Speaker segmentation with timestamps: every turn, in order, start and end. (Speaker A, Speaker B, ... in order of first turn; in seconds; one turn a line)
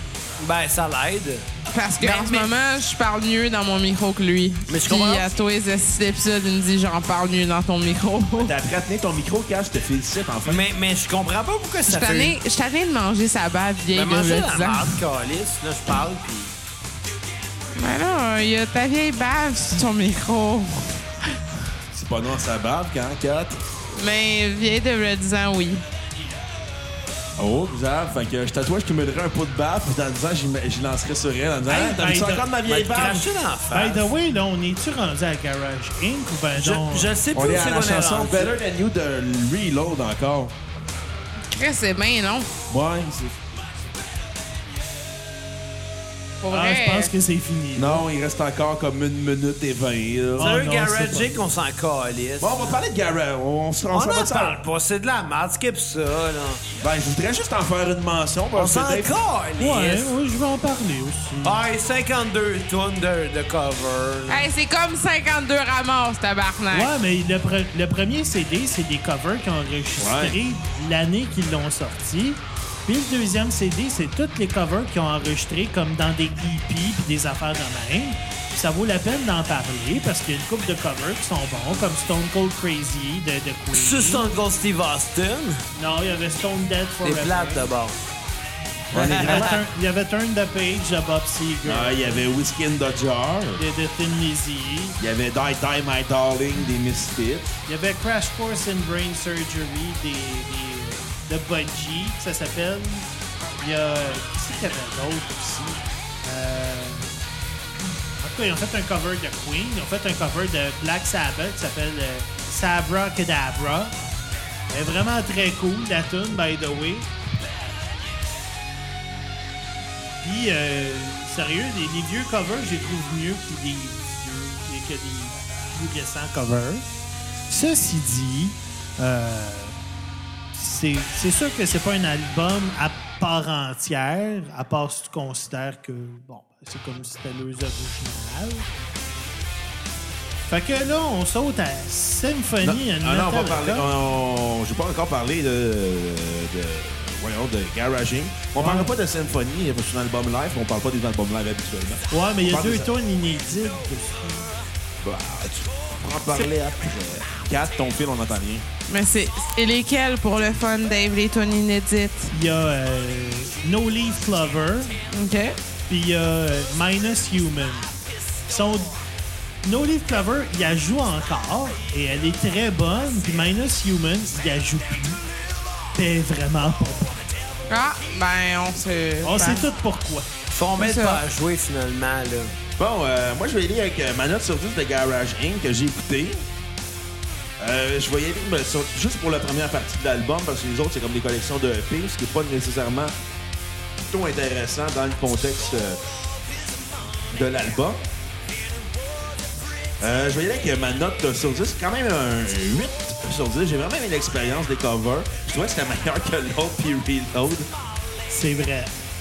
Speaker A: 0.4-1.5
Speaker B: 1.7-8.5
Speaker A: 2.0-2.5
Speaker A: 4.7-5.3
Speaker C: 8.4-10.6
Speaker A: 10.4-12.4
Speaker B: 11.9-15.0
Speaker A: 13.9-16.6
Speaker B: 17.8-21.4
Speaker C: 21.9-23.6
Speaker B: 23.9-25.8
Speaker C: 27.4-33.3
Speaker D: 31.7-32.5
Speaker A: 32.6-34.1
Speaker D: 33.7-37.2
Speaker A: 36.5-38.5
Speaker C: 37.4-40.5
Speaker B: 41.5-42.5
Speaker C: 42.7-43.4
Speaker B: 46.4-47.1
Speaker D: 46.5-48.0
Speaker C: 47.8-50.5
Speaker D: 50.4-51.3
Speaker A: 50.4-52.8
Speaker C: 52.4-54.6
Speaker A: 53.9-56.6
Speaker C: 56.8-59.1
Speaker A: 58.6-60.1
Speaker D: 59.6-61.6
Speaker A: 61.4-64.5
Speaker B: 64.3-66.9
Speaker D: 66.7-84.3
Speaker C: 70.0-70.4
Speaker A: 83.7-85.6
Speaker D: 85.8-87.7
Speaker A: 87.0-88.0
Speaker C: 88.9-89.6
Speaker A: 88.9-89.6
Speaker D: 89.0-92.3
Speaker C: 91.7-93.6
Speaker D: 93.6-95.0
Speaker C: 95.0-97.6
Speaker D: 97.7-107.1
Speaker D: 108.2-114.0
Speaker D: 114.7-117.1
Speaker D: 120.2-126.9
Speaker D: 127.5-129.8
Speaker D: 130.5-138.7
Speaker D: 140.5-143.9
Speaker C: 142.6-152.9
Speaker D: 148.6-149.0
Speaker D: 152.1-154.5
Speaker C: 155.0-158.7
Speaker B: 158.9-162.3
Speaker D: 162.3-165.0
Speaker B: 165.1-165.6
Speaker D: 165.9-167.9
Speaker D: 168.5-169.0
Speaker D: 169.6-175.2
Speaker D: 175.9-177.3
Speaker B: 177.7-179.7
Speaker D: 179.2-180.3
Speaker A: 180.5-182.6
Speaker B: 180.8-181.2
Speaker C: 182.8-186.5
Speaker C: 187.6-193.1
Speaker C: 194.0-196.0
Speaker C: 197.3-198.1
Speaker C: 200.0-207.7
Speaker D: 208.3-208.9